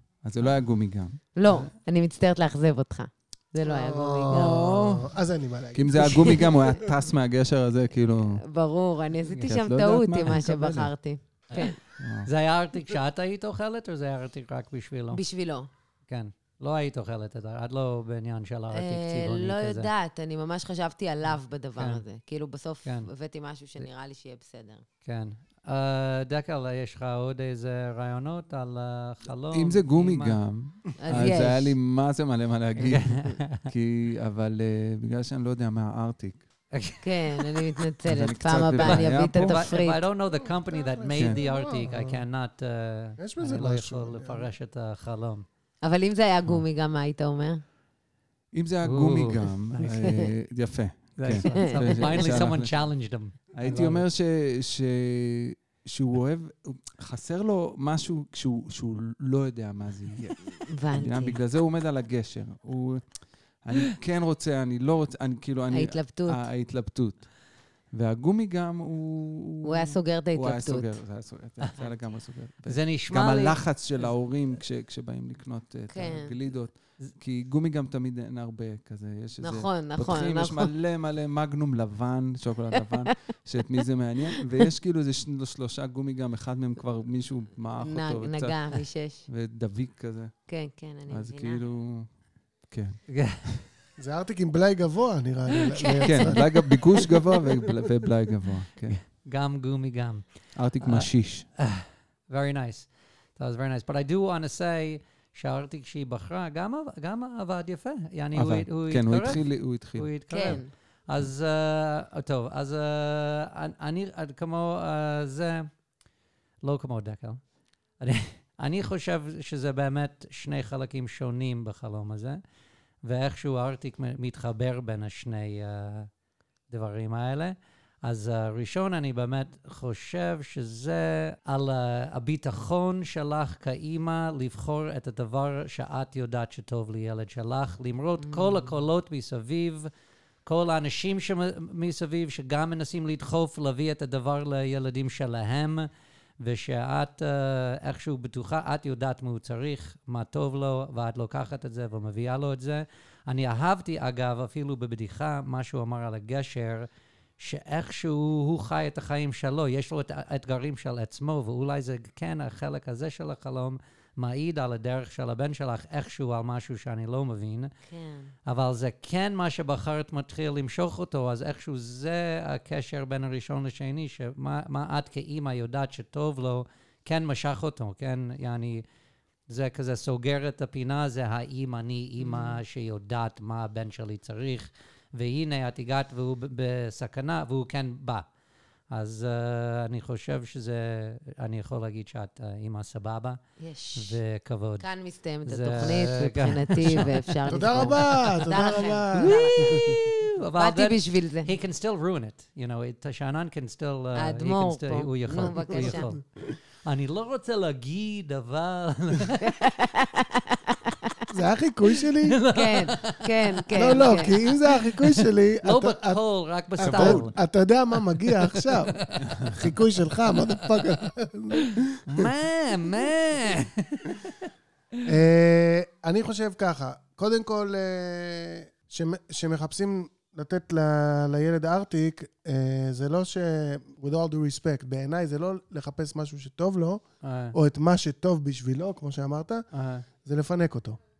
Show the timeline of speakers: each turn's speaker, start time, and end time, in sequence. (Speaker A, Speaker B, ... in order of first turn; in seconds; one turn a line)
Speaker A: 0.2-1.2
Speaker B: 1.4-4.6
Speaker C: 3.6-6.8
Speaker A: 4.3-5.1
Speaker A: 5.8-8.4
Speaker B: 6.1-6.5
Speaker B: 8.4-11.8
Speaker A: 9.3-10.9
Speaker A: 12.0-12.3
Speaker D: 12.3-15.2
Speaker B: 15.1-15.7
Speaker D: 16.1-19.9
Speaker B: 18.7-24.8
Speaker D: 21.8-22.0
Speaker D: 25.1-30.4
Speaker A: 29.5-36.4
Speaker B: 31.0-31.8
Speaker D: 32.8-33.7
Speaker D: 36.7-37.7
Speaker B: 37.0-40.0
Speaker A: 38.1-39.6
Speaker D: 38.8-45.5
Speaker C: 40.3-42.2
Speaker C: 43.2-44.5
Speaker B: 45.8-47.6
Speaker A: 48.5-52.7
Speaker D: 48.9-49.5
Speaker B: 49.9-50.2
Speaker D: 51.2-54.0
Speaker B: 51.5-52.4
Speaker A: 53.5-63.1
Speaker B: 60.7-61.4
Speaker A: 63.6-67.3
Speaker B: 65.7-66.5
Speaker A: 68.0-88.8
Speaker B: 69.7-70.9
Speaker D: 72.7-74.1
Speaker B: 75.9-76.3
Speaker B: 79.4-80.7
Speaker B: 87.8-89.3
Speaker A: 89.3-90.3
Speaker B: 90.5-91.6
Speaker A: 91.1-92.1
Speaker A: 92.7-93.6
Speaker D: 93.1-93.4
Speaker C: 94.0-96.5
Speaker B: 95.8-96.4
Speaker A: 96.0-99.0
Speaker D: 98.9-115.7
Speaker A: 100.6-101.5
Speaker A: 108.3-110.6
Speaker B: 110.3-110.7
Speaker D: 116.6-117.4
Speaker D: 118.0-122.4
Speaker D: 123.0-126.1
Speaker D: 126.7-139.9
Speaker B: 138.2-138.7
Speaker D: 140.5-145.9
Speaker D: 146.4-156.9
Speaker D: 157.4-167.7
Speaker B: 167.9-168.3
Speaker D: 168.5-178.8
Speaker D: 179.5-188.2
Speaker B: 182.2-182.6
Speaker D: 188.9-193.4
Speaker B: 193.6-194.2
Speaker D: 194.0-194.9
Speaker B: 194.8-199.8
Speaker D: 195.5-197.2
Speaker C: 197.5-200.1
Speaker D: 199.2-206.2
Speaker B: 200.6-201.5
Speaker B: 204.2-206.1
Speaker D: 206.8-209.5
Speaker B: 209.4-211.1
Speaker C: 211.3-212.4
Speaker D: 212.2-214.0
Speaker B: 212.5-214.4
Speaker C: 213.8-216.2
Speaker D: 214.9-217.3
Speaker C: 216.8-222.3
Speaker D: 218.3-219.5
Speaker D: 221.6-224.3
Speaker C: 225.1-237.0
Speaker D: 237.2-237.6
Speaker C: 237.5-239.6
Speaker D: 239.7-240.1
Speaker C: 240.2-241.0